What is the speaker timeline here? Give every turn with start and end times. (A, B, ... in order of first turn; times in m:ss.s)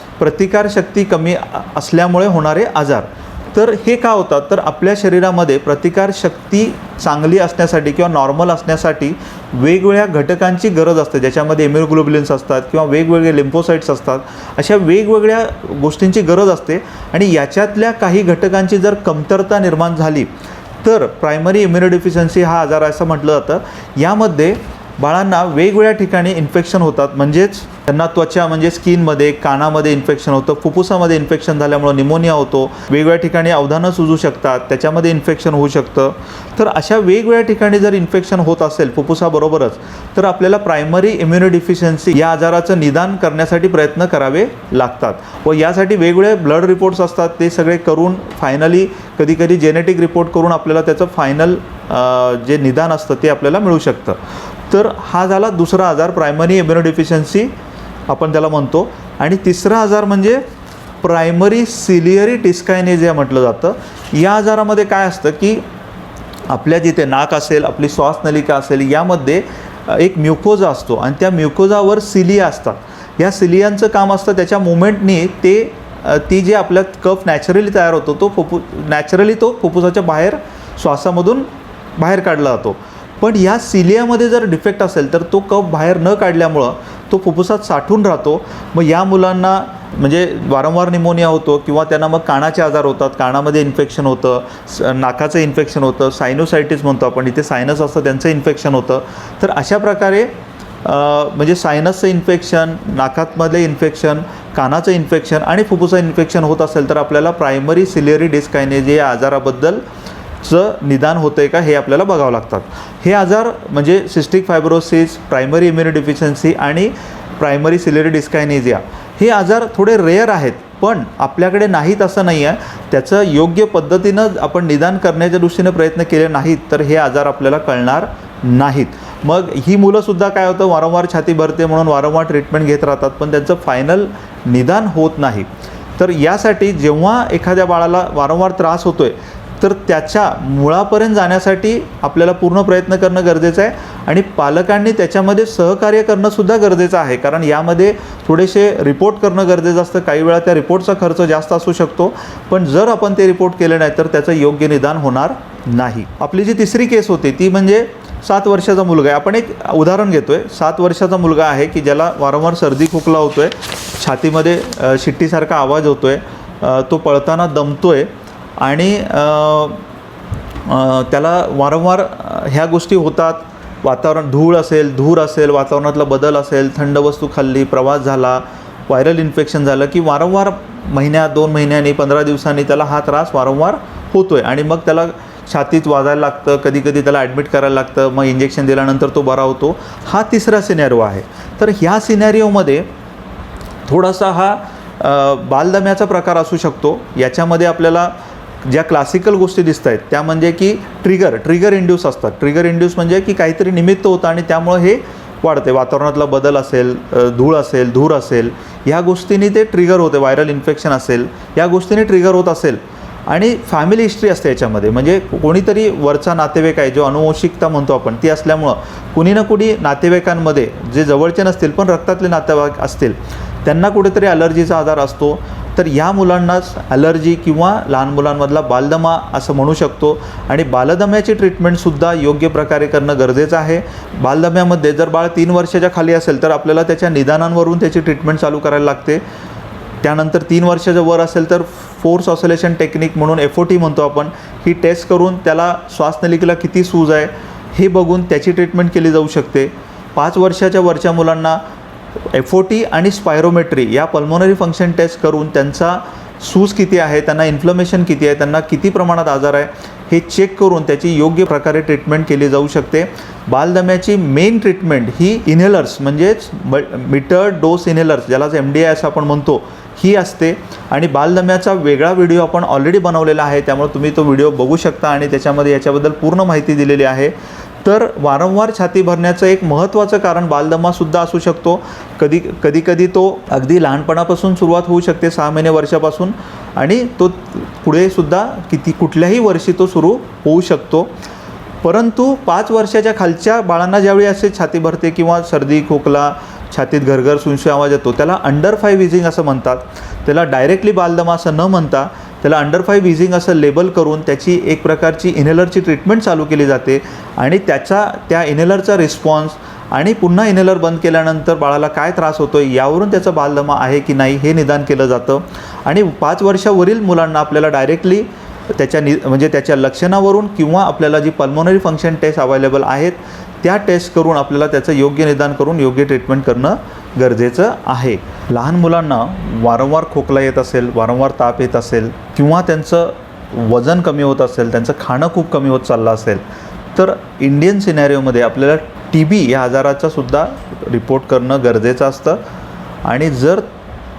0:00.2-0:20.3 A
0:20.8-0:54.2 A
0:54.7-0:57.5 A
0:58.1-1:00.4 A
1:01.0-1:05.6 A
1:06.5-1:40.3 A
1:40.8-1:49.8 A
1:50.4-2:15.5 A
2:16.0-2:49.8 A
2:50.7-3:12.9 A
3:13.9-3:59.2 A
4:00.0-4:11.6 A
4:12.3-4:51.1 A
4:51.8-5:36.4 A
5:37.0-5:42.4 A
5:43.0-5:43.7 A